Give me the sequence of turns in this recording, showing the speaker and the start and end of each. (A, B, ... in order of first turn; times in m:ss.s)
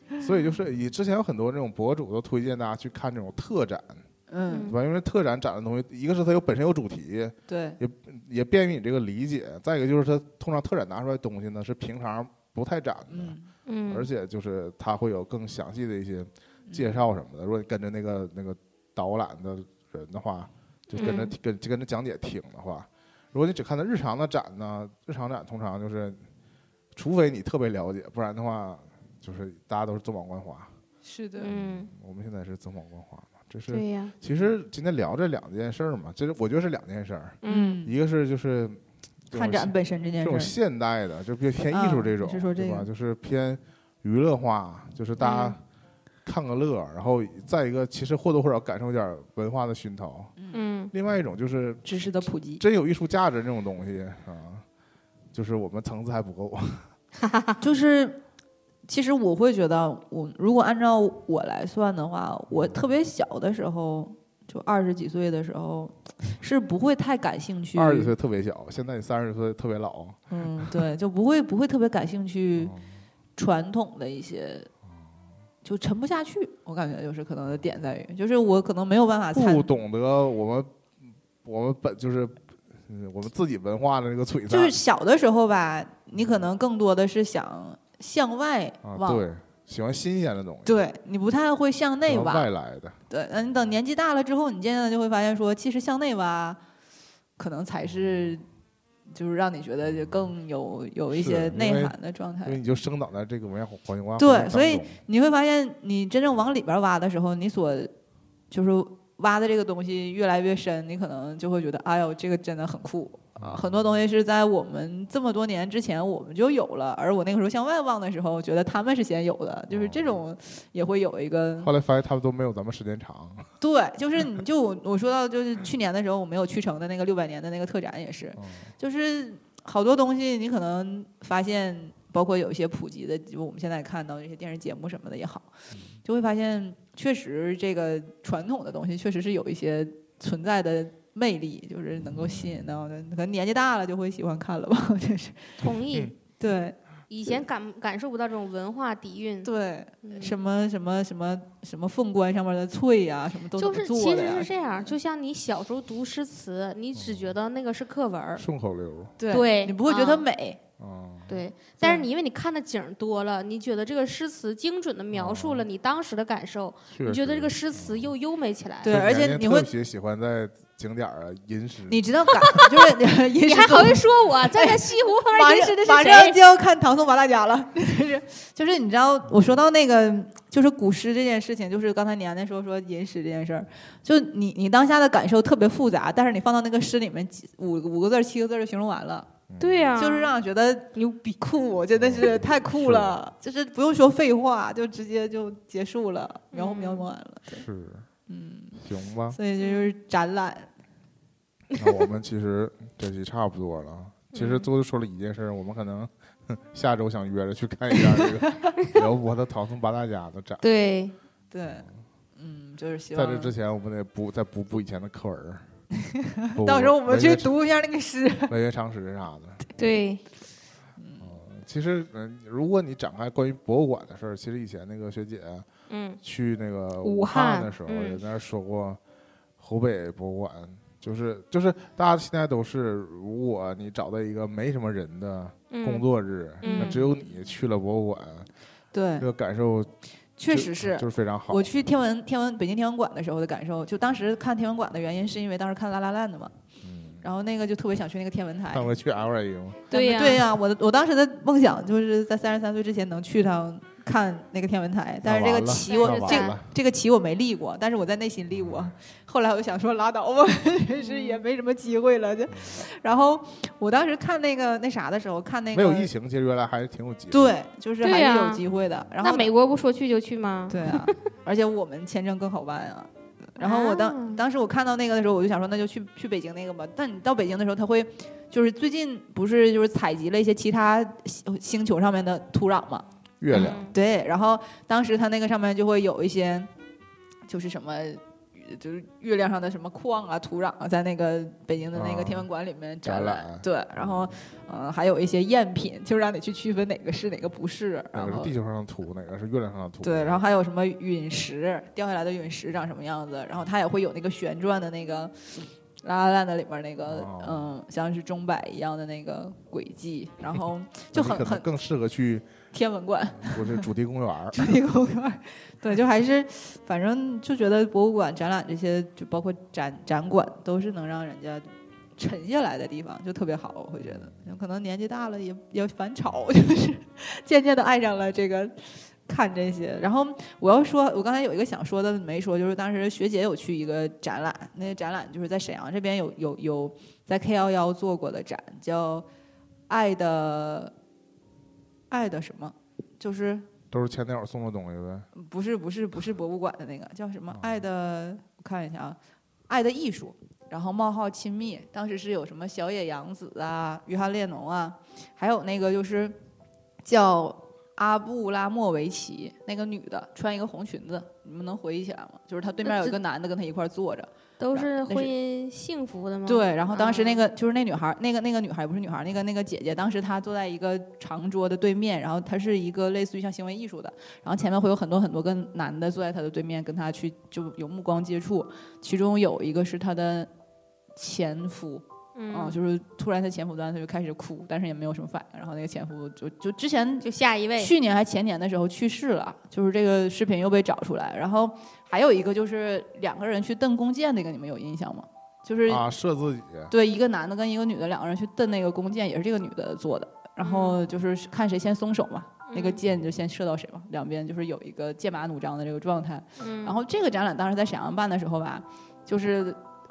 0:00.2-0:04.0 A
0:04.3-0:04.7 B
0:04.5-0:04.8 C
0:04.7-0:13.3 A
0:07.5-0:07.8 B
0:13.1-0:13.5 B
0:13.7-0:14.1 C
0:13.9-0:26.2 A
0:21.0-0:21.3 C
0:26.9-0:30.7 A
0:31.0-0:31.5 B
0:31.4-0:31.9 C
0:31.9-0:45.6 A
0:33.7-0:34.1 C
0:37.4-0:37.8 C
0:37.4-0:37.9 B
0:39.3-0:40.6 B
0:41.7-0:42.9 B
0:45.2-0:45.6 C
0:46.2-0:50.3 A
0:50.4-0:50.6 B
0:50.5-0:50.9 C
0:50.9-0:54.6 A
0:51.8-0:52.6 B
0:55.3-0:56.9 A
0:57.2-0:57.6 C
0:57.6-0:58.2 B
0:58.9-1:08.1 B
1:07.7-1:10.8 A
1:10.3-1:12.7 B
1:13.4-1:14.7 B
1:15.6-1:19.7 B
1:19.3-1:20.7 A
1:21.4-1:22.4 A
1:22.9-1:24.8 A
1:24.5-1:29.2 B
1:28.8-1:30.8 A
1:30.6-1:32.5 B
1:32.1-1:32.9 A
1:33.1-1:36.6 B
1:37.4-1:38.4 B
1:39.1-1:42.6 B
1:41.1-1:45.0 A
1:44.2-1:47.9 B
1:48.5-2:01.7 B
1:53.4-1:53.8 A
1:59.7-2:00.2 A
2:01.6-2:03.5 A
2:03.6-2:15.5 B
2:08.4-2:08.6 A
2:16.0-2:25.6 B
2:22.2-2:22.7 A
2:25.6-2:26.1 C
2:26.4-2:27.4 B
2:27.1-2:29.5 C
2:29.4-2:34.9 B
2:30.0-2:30.4 C
2:33.6-2:38.4 C
2:36.9-2:37.3 A
2:38.4-2:39.1 A
2:39.2-2:40.6 B
2:39.3-2:40.2 C
2:40.8-2:41.4 A
2:41.3-2:49.0 C
2:41.8-2:42.0 B
2:45.1-2:45.6 A
2:47.0-2:48.1 A
2:48.8-2:49.7 B
2:48.8-2:52.6 A
2:51.9-3:09.3 B
2:53.4-2:56.4 C
3:09.5-3:10.0 A
3:09.6-3:10.4 C
3:10.0-3:17.6 B
3:11.0-3:11.3 C
3:12.0-3:13.2 A
3:16.5-3:17.1 C
3:17.5-3:18.1 A
3:18.3-3:20.7 B
3:18.8-3:19.4 A
3:19.6-3:19.9 C
3:21.8-3:30.6 A
3:24.3-3:24.7 C
3:28.0-3:28.7 B
3:30.6-3:31.1 C
3:31.5-3:33.5 B
3:33.1-3:35.6 A
3:36.0-3:38.5 B
3:36.6-3:37.5 A
3:38.5-3:39.6 A
3:39.8-3:40.2 C
3:41.0-3:41.3 B
3:41.2-3:45.7 A
3:45.9-3:46.2 C
3:46.2-3:49.0 A
3:47.0-3:48.2 C
3:49.6-3:58.5 A
3:55.7-3:56.0 C
3:56.6-3:57.0 C
3:56.6-3:57.1 B
3:58.9-3:59.3 B
3:59.2-3:59.9 A
4:00.4-4:06.5 B
4:00.5-4:01.7 A
4:06.8-4:07.2 A
4:07.2-4:08.9 B
4:08.7-4:09.9 A
4:09.9-4:10.4 C
4:09.9-4:26.1 B
4:15.2-4:16.7 A
4:15.9-4:16.6 C
4:21.0-4:21.4 C
4:22.5-4:22.8 A
4:25.7-4:27.6 A
4:27.3-4:29.5 B
4:28.0-4:28.6 C
4:29.2-4:31.1 C
4:30.7-4:46.7 B
4:33.6-4:34.4 C
4:43.4-4:43.8 A
4:43.5-4:43.9 C
4:47.5-4:58.5 B
4:51.9-4:52.5 A
4:53.0-4:54.3 A
4:58.1-5:00.4 A
5:00.0-5:11.7 B
5:07.1-5:07.7 A
5:11.1-5:12.5 A
5:12.7-5:13.9 B
5:13.4-5:14.7 A
5:14.5-5:39.2 B
5:24.0-5:24.4 A
5:39.9-5:40.9 B
5:42.1-5:43.6 B
5:43.9-5:45.3 A
5:45.3-5:49.2 B
5:49.7-5:56.4 B
5:57.0-6:05.3 B
6:02.8-6:03.2 C
6:04.6-6:07.4 C
6:06.4-6:20.5 B
6:21.2-6:36.0 B
6:22.3-6:22.8 C
6:27.2-6:27.9 C
6:35.9-6:36.9 A
6:36.9-6:49.8 B
6:40.6-6:41.0 C
6:42.7-6:43.0 C
6:46.6-6:47.0 C